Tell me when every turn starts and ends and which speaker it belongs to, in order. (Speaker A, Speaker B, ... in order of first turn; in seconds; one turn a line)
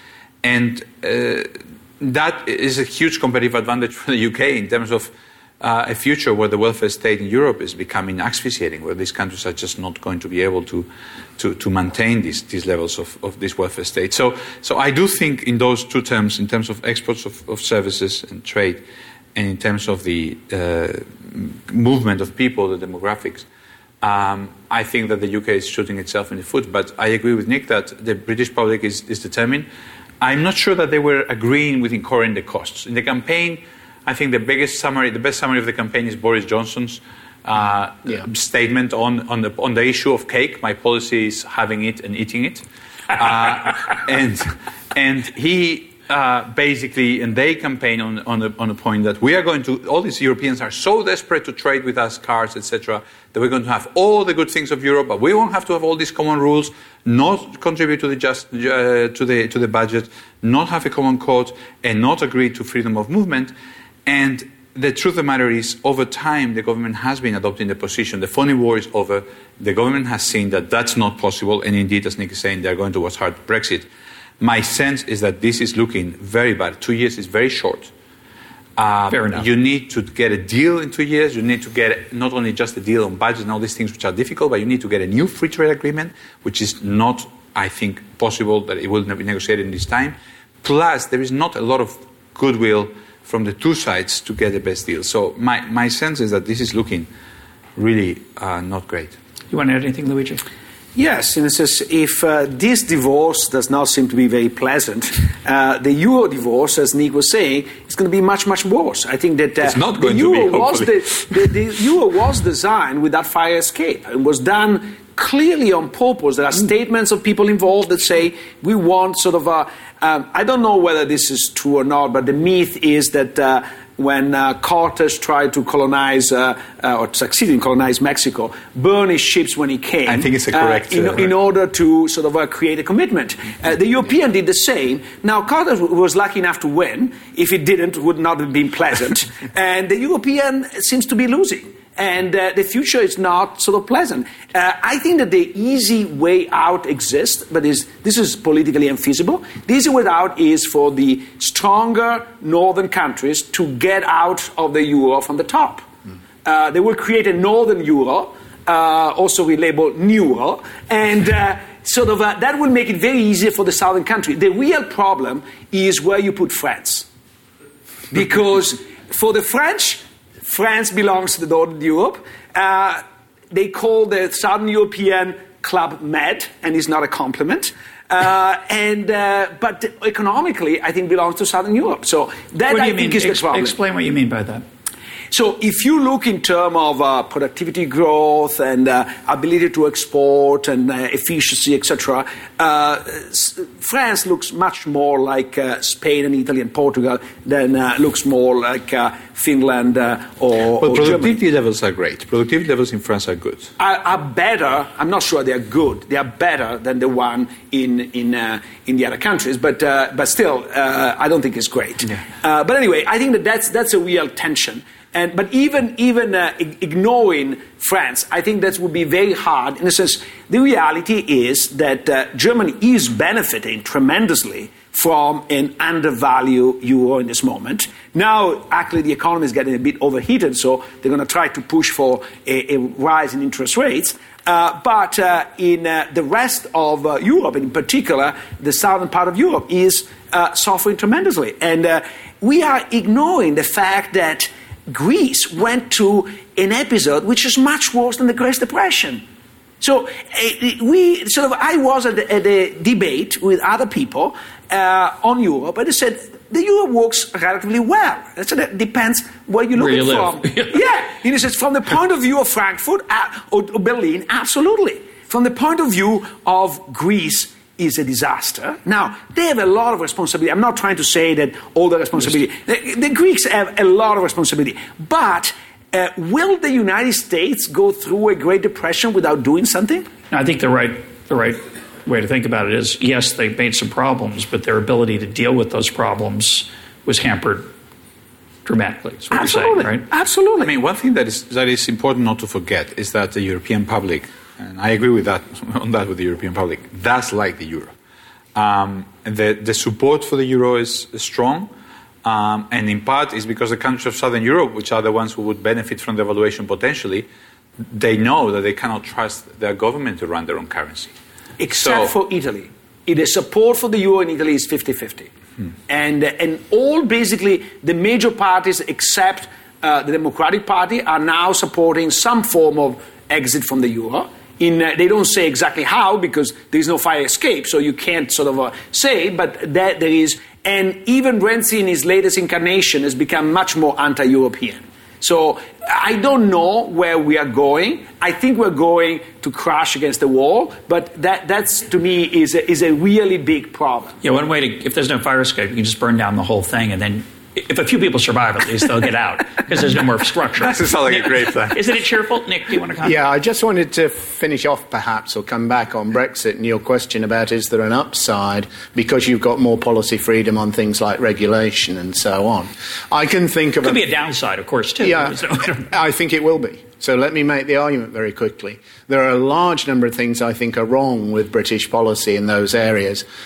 Speaker A: 0.4-10.9
Speaker A: 11.4-18.8
Speaker A: 19.3-23.4
Speaker A: 24.0-29.7
Speaker A: 30.2-63.5
Speaker A: 64.0-73.9
Speaker A: 74.4-77.9
Speaker A: 78.8-97.1
Speaker B: 79.1-79.4
Speaker A: 97.8-99.2
Speaker B: 99.5-100.4
Speaker C: 100.9-155.9
Speaker A: 109.6-111.6
Speaker A: 130.1-131.3
Speaker C: 156.4-167.1
Speaker C: 168.1-183.7
Speaker B: 182.7-184.6
Speaker C: 185.3-201.3
Speaker A: 200.8-203.7
Speaker C: 203.8-249.2
Speaker C: 249.8-280.1
Speaker B: 259.8-260.8
Speaker B: 280.3-287.7
Speaker B: 288.6-290.0
Speaker C: 289.3-290.7
Speaker A: 290.6-297.9
Speaker A: 298.5-301.7
Speaker A: 302.2-307.3
Speaker A: 307.9-311.1
Speaker C: 311.6-315.3
Speaker A: 311.7-312.1
Speaker C: 315.9-344.2
Speaker B: 344.2-353.2
Speaker A: 350.6-351.8
Speaker D: 353.0-364.0
Speaker B: 363.8-365.9
Speaker D: 365.0-373.2